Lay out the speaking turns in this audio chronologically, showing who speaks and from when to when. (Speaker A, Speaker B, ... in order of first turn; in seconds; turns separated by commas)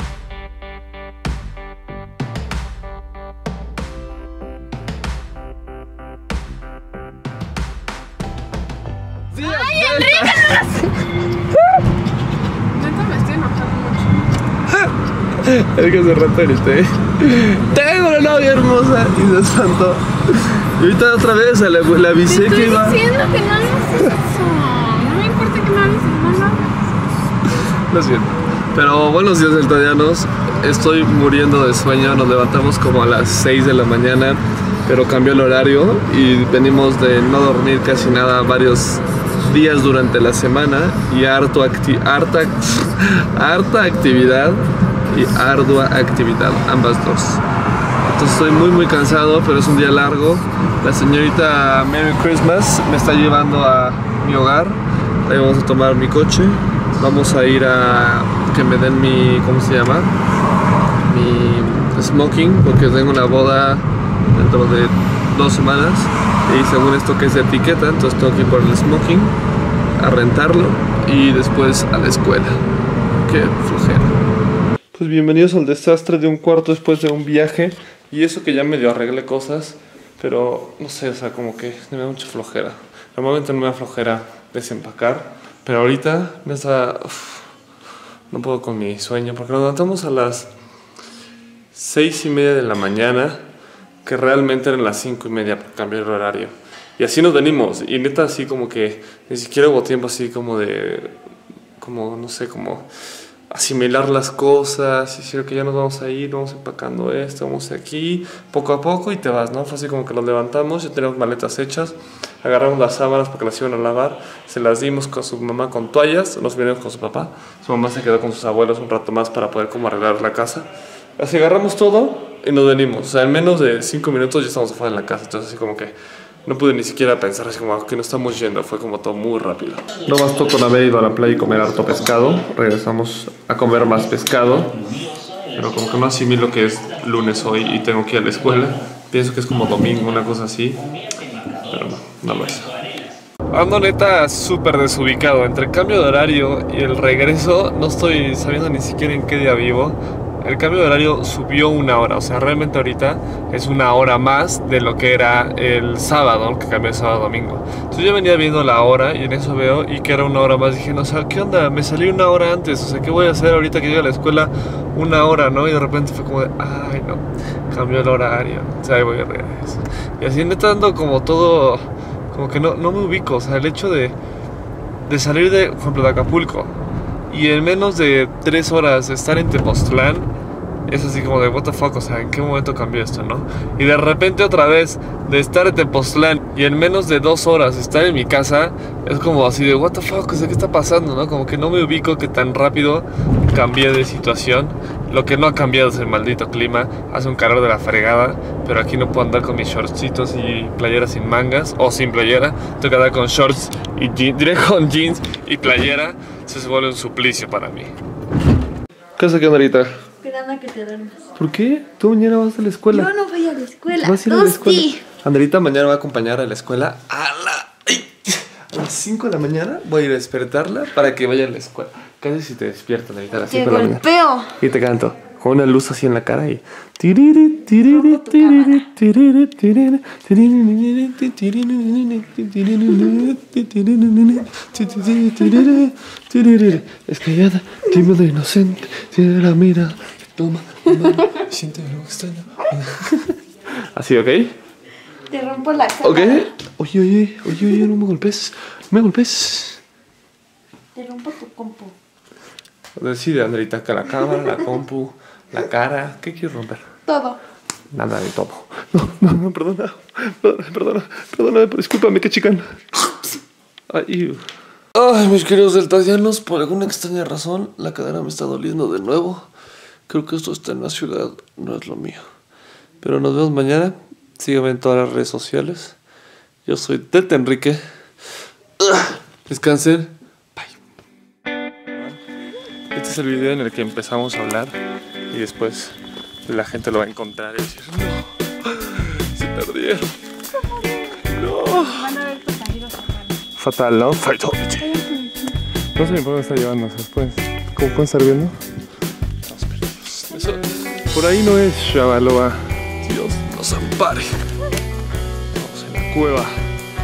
Speaker A: 9.3-10.9, Speaker B: 9.4-10.6, Speaker B: 12.7-14.3, Speaker A: 14.7-23.1, Speaker B: 22.3-26.8, Speaker A: 27.6-47.4, Speaker A: 48.0-60.2, Speaker A: 61.0-69.4, Speaker A: 70.0-72.6, Speaker A: 73.2-74.2, Speaker A: 74.9-87.5, Speaker A: 88.3-90.5, Speaker A: 91.7-93.4, Speaker A: 94.0-101.2, Speaker A: 101.8-102.9, Speaker A: 103.5-125.9, Speaker A: 126.5-134.8, Speaker A: 135.5-140.9, Speaker A: 141.5-142.8, Speaker A: 143.5-174.2, Speaker A: 175.1-176.8, Speaker A: 177.3-180.3, Speaker A: 180.9-207.9, Speaker A: 209.2-209.9, Speaker C: 210.2-211.3, Speaker A: 211.3-213.1, Speaker C: 212.9-215.0, Speaker A: 213.9-244.5, Speaker C: 223.5-224.6, Speaker C: 228.0-228.8, Speaker C: 245.3-246.5, Speaker A: 246.0-249.8, Speaker C: 251.0-251.9, Speaker A: 253.0-256.9, Speaker C: 257.1-257.4, Speaker A: 257.9-263.4, Speaker A: 263.9-269.5, Speaker A: 270.1-272.2, Speaker A: 273.0-276.0, Speaker A: 276.6-277.8, Speaker A: 278.8-280.8, Speaker A: 281.9-282.2, Speaker A: 282.9-284.8, Speaker A: 285.3-290.1, Speaker A: 291.1-292.2, Speaker B: 292.2-293.3, Speaker A: 293.6-295.2, Speaker B: 295.1-295.3, Speaker A: 295.9-298.6, Speaker A: 299.4-304.3, Speaker A: 305.6-306.6